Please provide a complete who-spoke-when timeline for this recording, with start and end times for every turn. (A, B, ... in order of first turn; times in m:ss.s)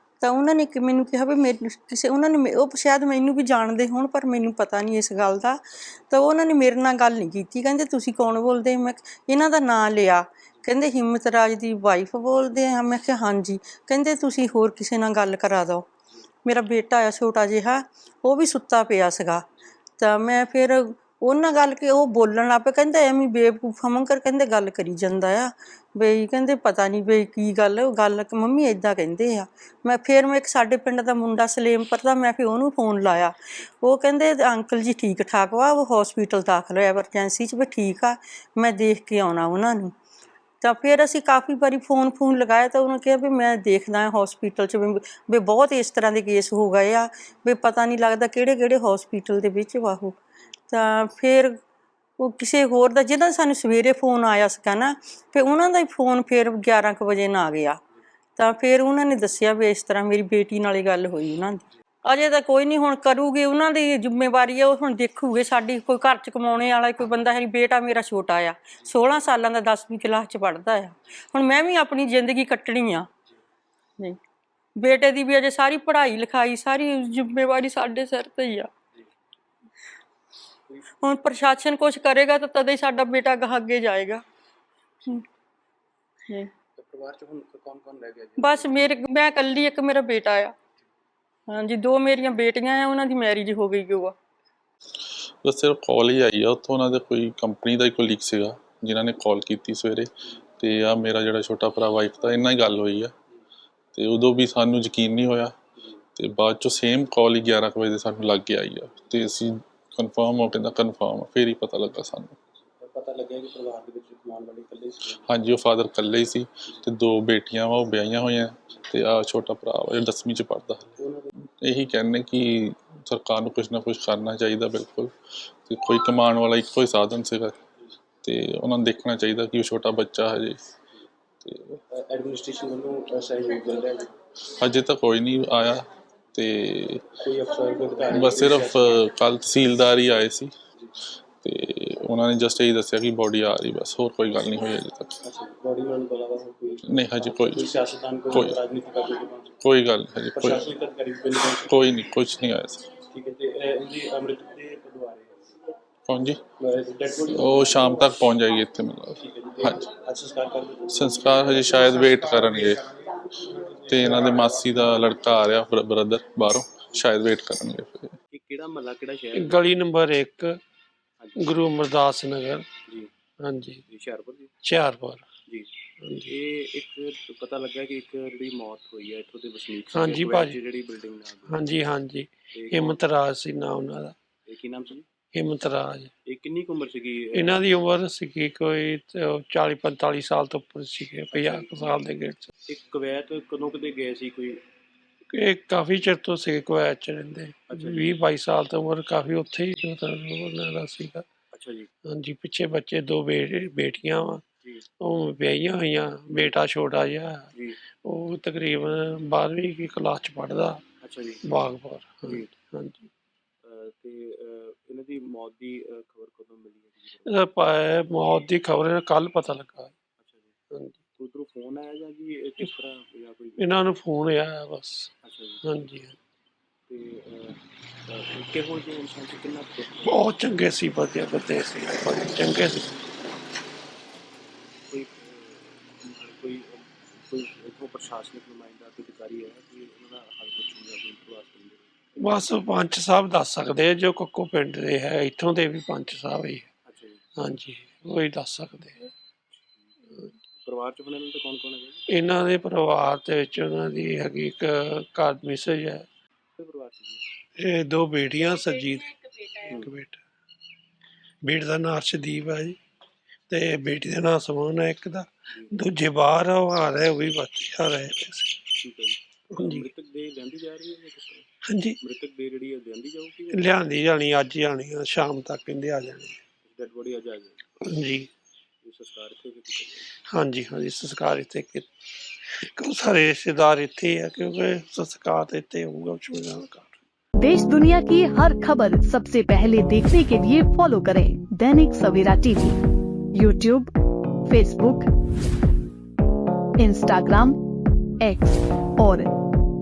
0:00.2-0:15.9 A
0:16.4-0:19.4 A
0:20.0-0:40.0 A
0:40.6-0:50.2 A
0:50.7-0:51.6 A
0:52.2-0:57.8 A
0:58.4-1:13.1 A
1:14.8-1:18.7 A
1:21.0-1:24.2 A
1:26.8-1:28.7 B
1:28.4-1:30.5 A
1:31.5-1:34.2 A
1:35.4-1:43.1 C
1:43.9-1:45.5 C
1:46.2-1:52.4 C
1:52.8-1:55.2 B
1:55.2-2:00.9 C
2:01.0-2:01.3 B
2:01.6-2:05.1 C
2:05.6-2:07.6 C
2:08.2-2:10.6 C
2:11.4-2:11.8 C
2:11.9-2:14.1 B
2:14.6-2:17.2 C
2:17.2-2:19.0 B
2:18.1-2:20.5 C
2:21.4-2:25.2 C
2:25.2-2:29.6 B
2:26.9-2:27.7 C
2:28.3-2:28.6 C
2:29.6-2:30.7 C
2:30.3-2:31.9 B
2:31.6-2:32.9 C
2:33.1-2:35.7 B
2:36.1-2:36.4 C
2:36.6-2:38.3 B
2:37.3-2:39.9 C
2:39.2-2:41.6 B
2:40.9-2:42.9 C
2:43.4-2:48.2 C
2:48.3-2:49.7 B
2:49.3-2:50.6 D
2:51.2-2:51.6 B
2:51.4-2:52.7 D
2:53.4-2:53.8 D
2:53.9-2:54.5 B
2:54.6-2:55.3 D
2:56.0-2:56.3 D
2:56.2-3:01.7 B
2:59.9-3:00.6 D
3:01.5-3:04.2 D
3:02.5-3:03.0 B
3:04.5-3:05.1 B
3:05.3-3:06.1 D
3:06.2-3:07.8 B
3:07.3-3:12.5 D
3:11.3-3:11.9 B
3:12.7-3:14.6 B
3:15.3-3:21.2 D
3:17.7-3:18.2 B
3:21.5-3:21.9 B
3:22.1-3:24.4 D
3:25.0-3:27.5 D
3:27.5-3:27.8 B
3:28.0-3:30.8 D
3:31.0-3:31.4 B
3:31.4-3:33.1 D
3:32.2-3:32.5 B
3:33.6-3:37.4 B
3:37.2-3:39.9 D
3:40.2-3:40.5 B
3:40.7-3:41.0 D
3:41.2-3:43.7 B
3:43.6-3:45.1 D
3:45.2-3:45.6 B
3:45.6-3:46.2 D
3:46.9-3:50.3 B
3:50.0-3:53.0 D
3:54.9-4:01.9 B
4:02.2-4:06.7 D
4:06.9-4:07.2 B
4:07.4-4:09.1 D
4:10.6-4:12.0 B
4:12.1-4:16.1 D
4:16.6-4:17.2 B
4:17.6-4:20.2 D
4:19.6-4:19.9 B
4:21.4-4:22.8 D
4:23.5-4:28.6 D
4:25.5-4:25.8 B
4:28.8-4:31.4 B
4:29.5-4:29.9 D
4:31.6-4:32.0 D
4:32.0-4:33.7 B
4:33.5-4:36.4 D
4:36.7-4:37.9 B
4:37.8-4:38.3 D
4:38.8-4:40.1 B
4:40.3-4:41.9 D
4:42.4-4:47.0 D
4:47.4-4:52.8 E
4:53.3-4:53.9 E
4:54.5-4:55.1 E
4:56.8-4:57.6 E
4:58.2-4:59.3 E